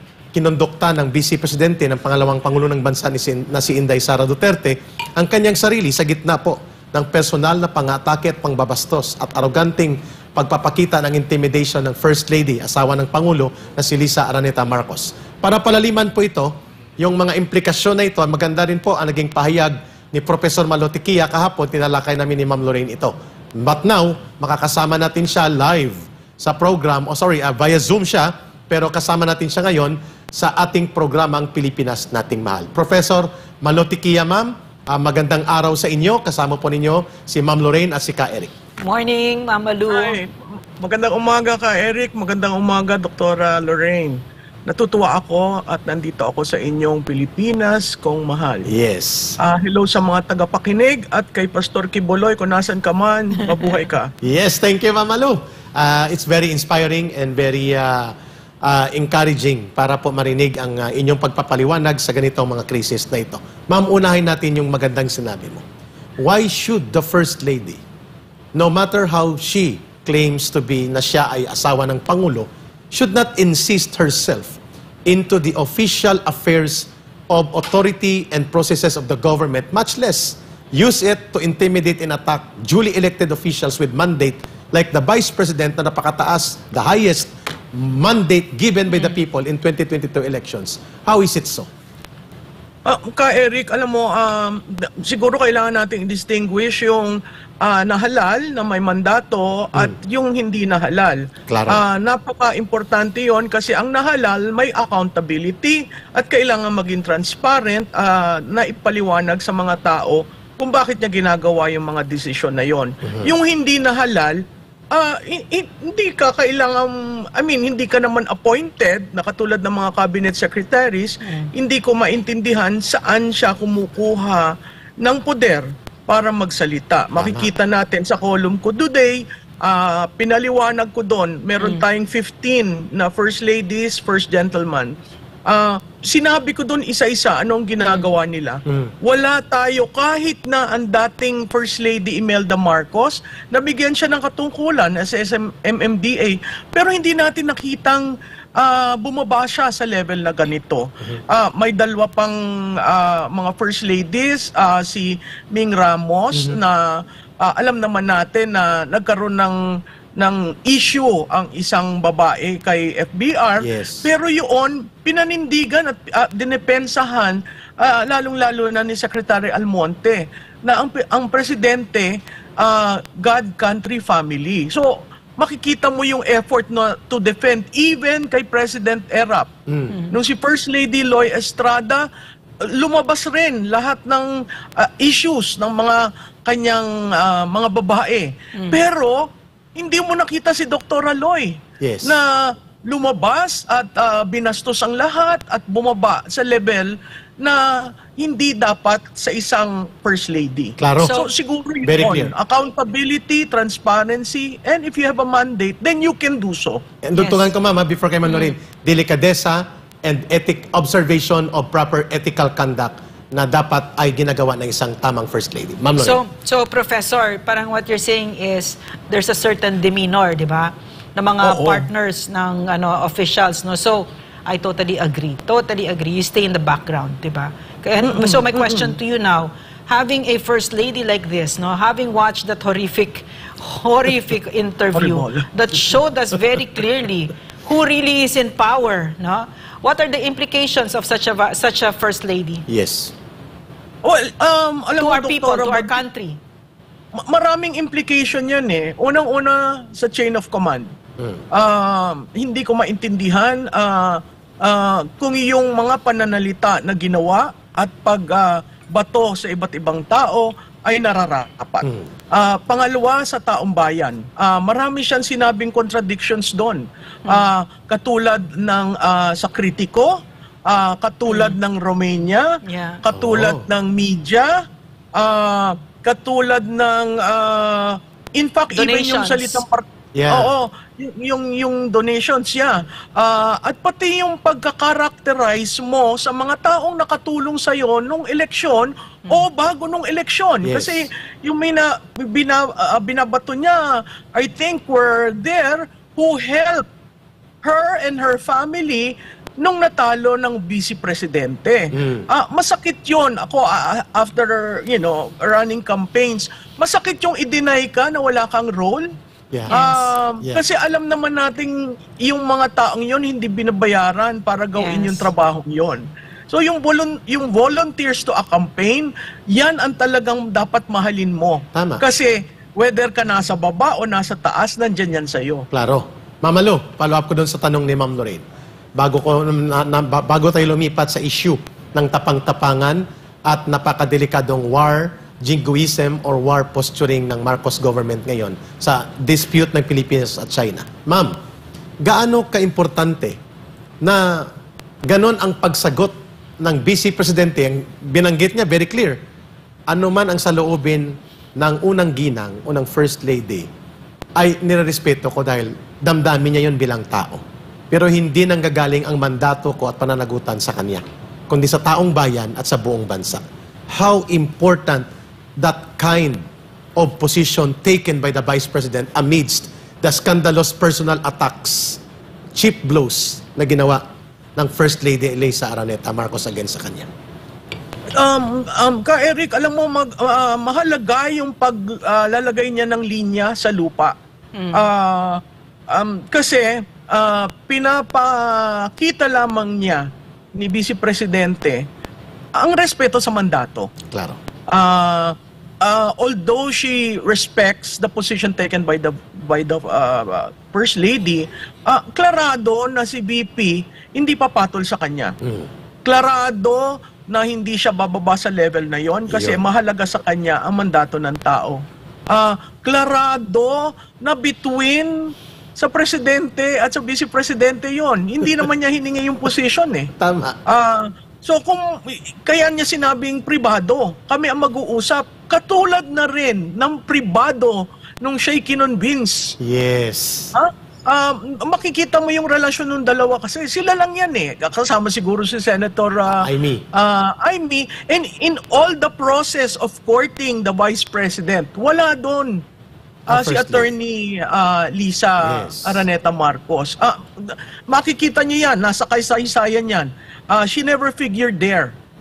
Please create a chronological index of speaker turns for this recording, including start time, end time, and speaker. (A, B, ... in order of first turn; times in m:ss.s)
0:00.3-0:38.5 A
0:38.8-0:40.2 B
0:39.9-0:48.7 C
0:48.7-0:49.4 A
0:49.4-0:54.1 C
0:54.2-1:05.6 A
1:06.2-1:07.8 A
1:08.6-1:31.7 A
1:32.9-2:04.5 C
1:41.5-1:41.8 A
1:53.0-1:53.3 A
2:01.2-2:01.5 B
2:05.0-2:14.9 C
2:07.2-2:07.5 A
2:11.6-2:11.8 B
2:15.5-2:39.6 C
2:36.3-2:36.6 A
2:40.2-2:59.5 C
2:43.6-2:44.1 A
2:59.7-2:59.9 A
2:59.9-3:00.2 B
3:00.1-3:02.1 C
3:02.8-3:09.2 C
3:08.6-3:08.8 B
3:09.8-3:26.8 C
3:11.8-3:12.2 A
3:20.8-3:21.1 A
3:21.0-3:21.3 B
3:21.8-3:22.3 A
3:27.0-3:36.2 A
3:27.2-3:27.5 B
3:28.3-3:28.5 B
3:36.0-4:02.6 B
3:41.4-3:41.9 C
3:48.0-3:48.9 C
3:55.0-3:55.4 C
4:02.7-4:03.1 A
4:04.0-4:06.0 C
4:05.0-4:06.4 B
4:07.2-4:10.9 C
4:11.5-4:32.5 C
4:21.8-4:22.1 A
4:31.3-4:31.6 B
4:32.6-4:33.0 B
4:33.0-4:34.6 C
4:33.1-4:33.7 A
4:35.2-4:56.9 C
4:38.7-4:39.6 B
4:40.2-4:40.5 A
4:50.6-4:51.1 A
4:57.6-5:09.1 C
5:02.0-5:02.3 A
5:09.7-5:25.7 C
5:09.7-5:10.1 B
5:14.8-5:15.3 B
5:21.7-5:22.0 A
5:25.7-5:28.4 A
5:29.0-5:41.4 A
5:42.0-5:43.4 A
5:44.0-5:44.5 A
5:45.0-5:49.2 A
5:49.9-5:53.7 A
5:54.4-6:05.0 A
6:05.6-6:06.4 A
6:07.0-6:12.0 A
6:12.6-6:14.0 A
6:14.6-6:17.1 A
6:18.2-6:24.2 C
6:24.6-6:24.9 B
6:24.7-6:31.9 C
6:32.6-6:33.9 C
6:34.1-6:34.4 A
6:34.7-6:45.4 C
6:45.4-6:45.7 A
6:46.0-7:00.1 C
6:49.3-6:49.6 A
7:00.2-7:00.6 A
7:00.7-7:09.6 C
7:09.6-7:10.5 A
7:10.5-7:22.6 C
7:16.4-7:16.8 A
7:23.3-7:23.9 A
7:23.3-7:31.9 C
7:25.4-7:26.0 A